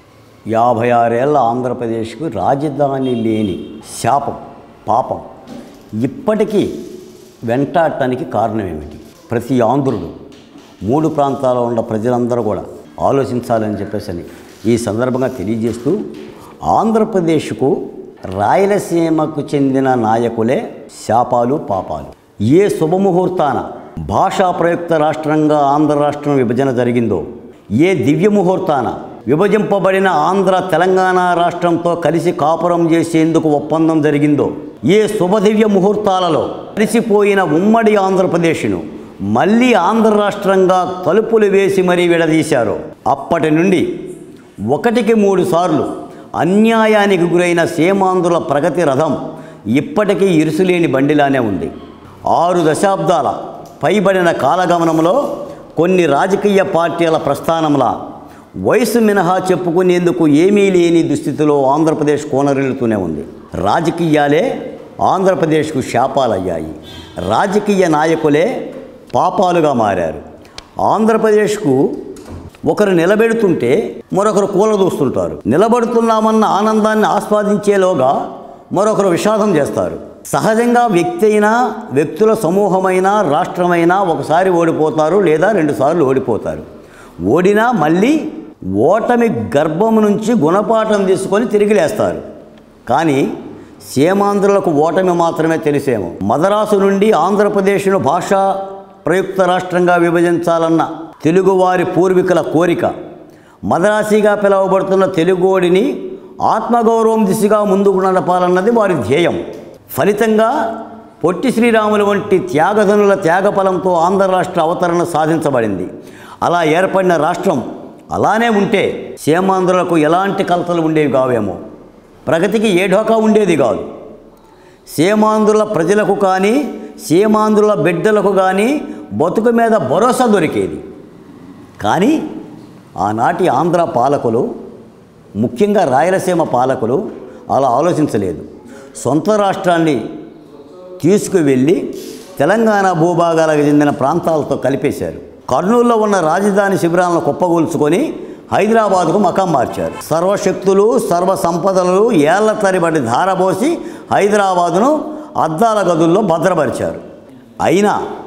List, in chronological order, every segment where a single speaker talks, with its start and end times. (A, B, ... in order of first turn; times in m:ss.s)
0:00.5-0:05.3 A
0:06.0-0:06.7 A
0:07.5-0:10.1 A
0:10.8-0:16.0 A
0:16.7-0:17.8 A
0:18.4-0:27.2 A
0:27.8-0:43.9 A
0:44.7-0:45.9 A
0:46.4-0:49.2 A
0:49.7-0:51.7 A
0:52.3-0:55.2 A
0:55.8-0:58.0 A
0:58.7-1:04.5 A
1:05.0-1:08.5 A
1:09.1-1:10.2 A
1:10.8-1:11.9 A
1:12.7-1:18.2 A
1:18.7-1:26.6 A
1:27.3-1:28.2 A
1:28.8-1:32.2 A
1:32.9-1:33.3 A
1:33.9-1:38.5 A
1:39.0-1:42.9 A
1:43.7-1:45.9 A
1:46.5-1:49.4 A
1:49.9-1:50.5 A
1:51.2-1:55.9 A
1:56.4-1:57.6 A
1:58.1-2:01.6 A
2:02.3-2:03.9 A
2:04.9-2:10.8 A
2:11.8-2:12.2 A
2:13.0-2:14.5 A
2:15.4-2:17.0 A
2:17.5-2:18.5 A
2:19.0-2:20.0 A
2:21.0-2:21.8 A
2:22.4-2:37.0 A
2:37.6-2:38.0 A